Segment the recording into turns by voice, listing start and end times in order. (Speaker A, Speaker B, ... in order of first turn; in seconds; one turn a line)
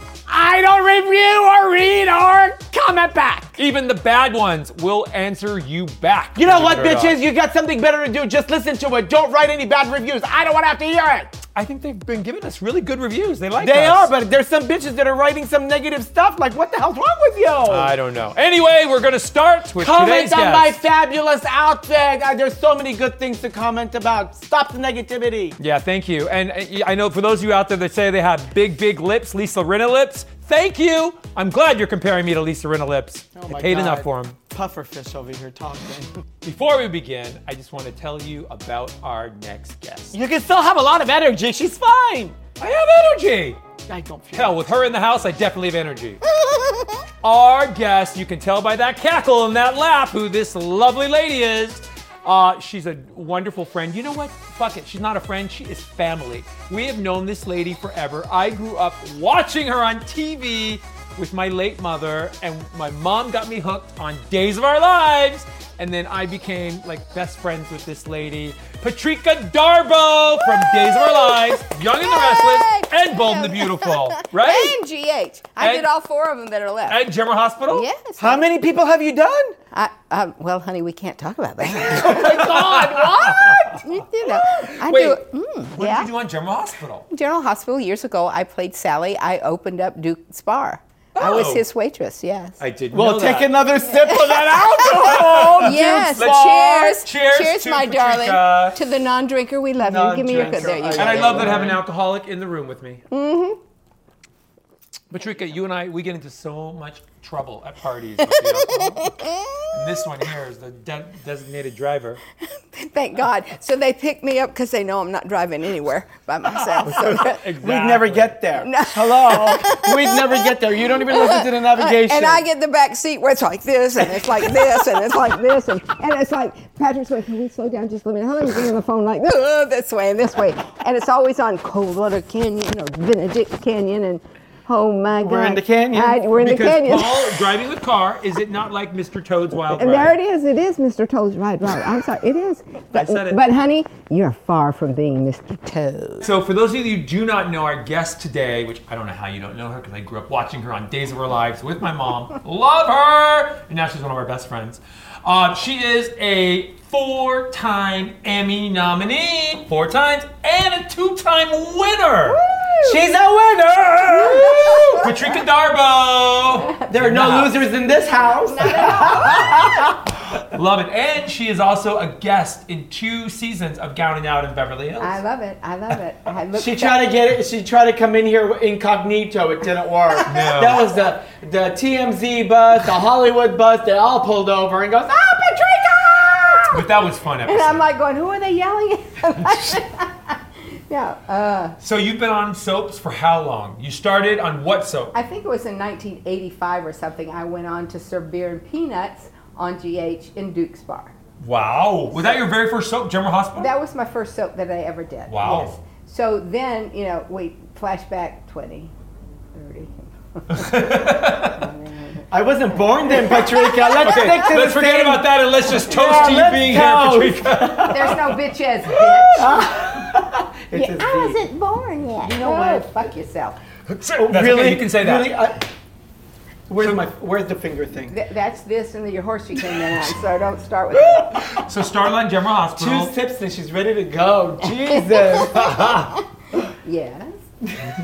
Speaker A: 0.3-3.5
Speaker B: 3.6-7.2
Speaker A: 6.3-11.4
Speaker B: 11.5-14.1
Speaker A: 13.6-17.9
Speaker B: 17.7-20.8
Speaker A: 19.8-25.6
Speaker B: 25.6-34.4
Speaker A: 33.3-36.2
Speaker B: 36.4-40.1
Speaker A: 40.1-42.4
Speaker B: 42.6-43.6
Speaker A: 43.9-44.6
Speaker B: 44.3-46.2
Speaker C: 46.4-47.0
Speaker B: 47.2-74.8
Speaker C: 70.4-77.0
Speaker B: 75.6-75.9
Speaker B: 76.9-77.9
Speaker C: 77.7-78.4
Speaker A: 78.2-79.5
Speaker C: 79.7-82.5
Speaker A: 81.8-83.8
Speaker B: 81.9-83.8
Speaker C: 83.8-86.1
Speaker B: 84.5-85.2
Speaker B: 85.7-87.0
Speaker C: 87.1-92.6
Speaker B: 91.2-91.6
Speaker B: 92.6-93.5
Speaker A: 92.9-96.7
Speaker C: 93.9-101.7
Speaker B: 94.9-98.8
Speaker A: 99.8-101.8
Speaker B: 100.3-103.0
Speaker C: 103.1-103.6
Speaker B: 105.1-109.1
Speaker C: 108.3-109.7
Speaker B: 109.7-112.2
Speaker C: 112.5-117.4
Speaker B: 116.8-118.3
Speaker A: 117.6-122.4
Speaker C: 118.6-137.4
Speaker A: 135.2-136.2
Speaker B: 136.4-140.1
Speaker C: 139.7-146.3
Speaker B: 142.9-143.4
Speaker B: 146.2-162.4
Speaker C: 162.3-163.0
Speaker A: 162.8-165.1
Speaker C: 164.1-165.1
Speaker B: 164.9-167.5
Speaker A: 166.9-169.9
Speaker C: 168.3-169.8
Speaker B: 169.2-175.2
Speaker C: 175.0-177.1
Speaker A: 176.5-186.7
Speaker B: 180.2-180.8
Speaker C: 185.3-186.8
Speaker B: 186.7-187.8
Speaker C: 187.4-191.8
Speaker B: 191.8-195.1
Speaker C: 195.1-201.1
Speaker B: 201.4-203.7
Speaker C: 202.1-202.4
Speaker C: 203.6-208.9
Speaker B: 205.3-205.8
Speaker C: 209.5-214.5
Speaker B: 210.5-211.6
Speaker A: 212.3-218.2
Speaker B: 214.0-218.2
Speaker C: 217.9-220.0
Speaker A: 219.3-221.4
Speaker C: 220.7-223.6
Speaker A: 222.2-223.0
Speaker B: 223.9-225.4
Speaker A: 224.2-225.7
Speaker A: 226.7-228.2
Speaker C: 228.1-231.4
Speaker B: 231.2-233.1
Speaker A: 232.8-235.6
Speaker C: 234.6-237.4
Speaker B: 235.4-236.1